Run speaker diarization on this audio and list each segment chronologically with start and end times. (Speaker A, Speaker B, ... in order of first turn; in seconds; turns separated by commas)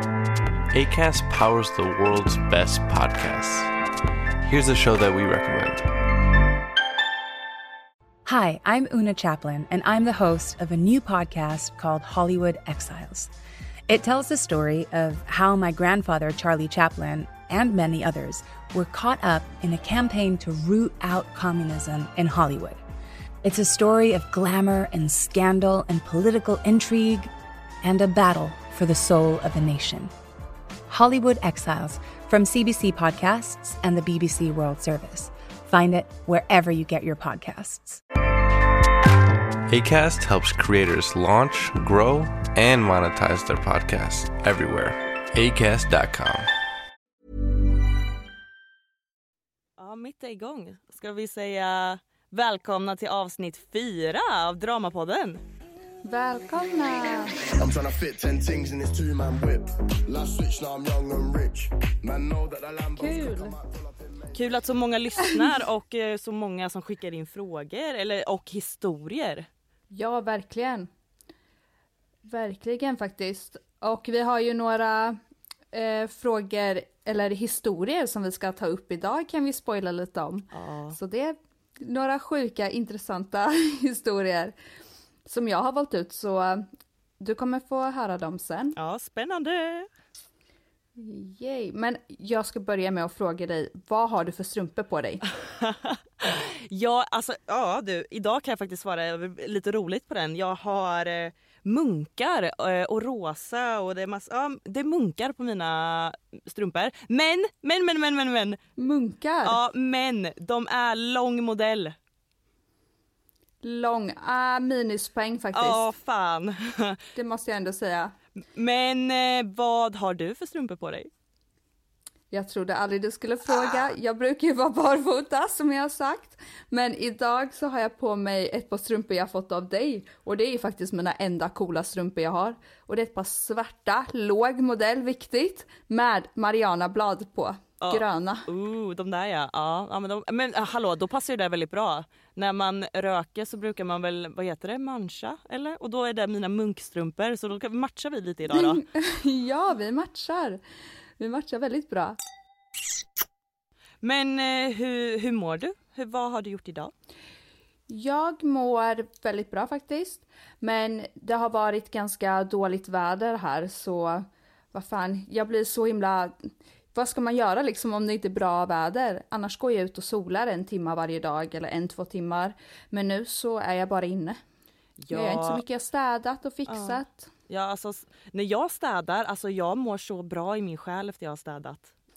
Speaker A: 0.7-3.7, Speaker A: 4.4-5.9, Speaker B: 8.2-13.3, Speaker B: 13.9-22.8, Speaker B: 23.4-27.3, Speaker B: 27.8-30.1, Speaker B: 30.9-38.0, Speaker A: 39.7-46.5, Speaker C: 49.8-55.4, Speaker D: 56.0-57.4, Speaker E: 57.6-64.4, Speaker D: 63.0-63.5, Speaker C: 64.3-69.5, Speaker D: 69.9-70.9, Speaker D: 72.2-75.2, Speaker D: 75.7-84.5, Speaker C: 80.5-81.0, Speaker D: 85.2-86.7, Speaker D: 87.2-88.8, Speaker C: 88.8-89.9, Speaker D: 91.0-95.2, Speaker C: 95.3-108.6, Speaker D: 108.8-109.6, Speaker C: 109.4-112.0, Speaker D: 113.6-115.8, Speaker C: 115.5-117.0, Speaker D: 117.1-118.1, Speaker C: 118.5-121.1, Speaker D: 122.3-138.4, Speaker C: 137.8-148.8, Speaker D: 148.5-150.6, Speaker D: 151.2-152.2, Speaker C: 154.0-156.9, Speaker D: 157.9-174.4, Speaker C: 175.0-175.6, Speaker D: 175.1-177.3, Speaker C: 176.7-181.9